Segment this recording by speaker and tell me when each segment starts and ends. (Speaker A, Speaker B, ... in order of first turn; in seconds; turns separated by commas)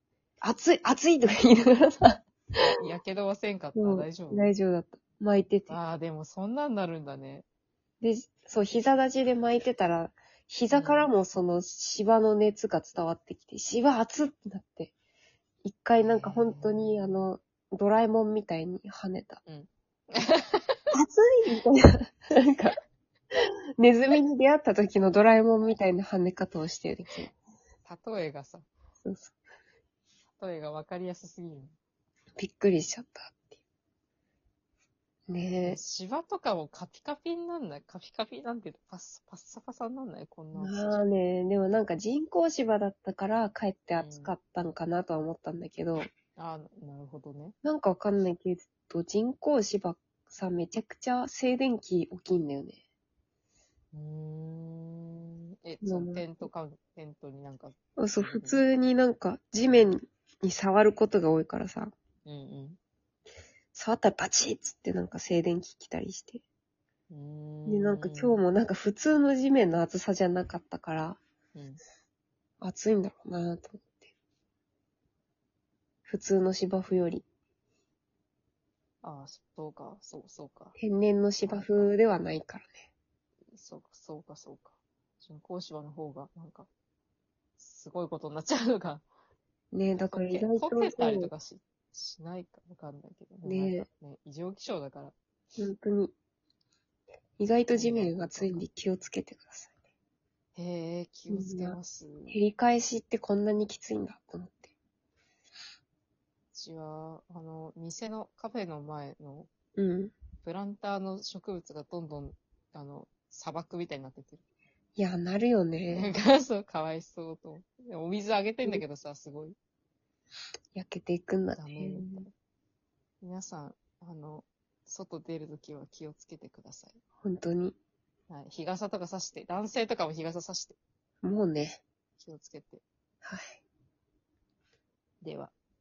Speaker A: 0.4-2.6, Speaker B: 2.6-4.5, Speaker A: 3.7-5.8, Speaker B: 5.7-7.4, Speaker A: 8.0-14.9, Speaker B: 10.7-11.1, Speaker A: 15.6-19.4, Speaker B: 16.0-17.2, Speaker B: 19.5-20.8, Speaker A: 20.9-22.8, Speaker A: 23.3-27.3, Speaker B: 27.8-28.7, Speaker A: 29.0-29.3, Speaker B: 30.4-31.8, Speaker A: 32.4-33.6, Speaker A: 35.3-35.8, Speaker B: 35.6-41.0, Speaker A: 40.5-46.1, Speaker B: 44.0-44.3, Speaker B: 46.4-47.5, Speaker A: 47.6-52.8, Speaker B: 53.9-58.6, Speaker A: 55.8-56.3, Speaker A: 58.0-61.9, Speaker B: 62.2-62.8, Speaker A: 63.7-66.4, Speaker B: 67.1-68.4, Speaker A: 67.7-71.2, Speaker B: 71.5-71.8, Speaker A: 72.6-74.1, Speaker A: 76.1-77.2, Speaker B: 79.0-80.7, Speaker A: 80.8-82.8, Speaker B: 81.4-81.9, Speaker B: 83.5-86.7, Speaker B: 87.6-89.0, Speaker A: 89.7-91.3, Speaker B: 90.0-95.1, Speaker A: 93.4-93.8, Speaker A: 95.6-96.1, Speaker A: 97.4-99.7, Speaker B: 97.7-98.6, Speaker B: 100.5-102.4, Speaker A: 101.3-101.8, Speaker A: 102.3-104.7, Speaker B: 106.5-109.5, Speaker A: 109.8-110.1, Speaker B: 110.4-114.4, Speaker A: 115.0-116.1, Speaker B: 115.9-119.5, Speaker A: 120.7-122.3, Speaker B: 121.6-122.3, Speaker B: 123.2-127.0, Speaker A: 127.2-127.8, Speaker B: 128.3-130.8, Speaker A: 131.2-131.8, Speaker B: 132.2-132.8, Speaker A: 133.2-133.6, Speaker B: 135.2-135.5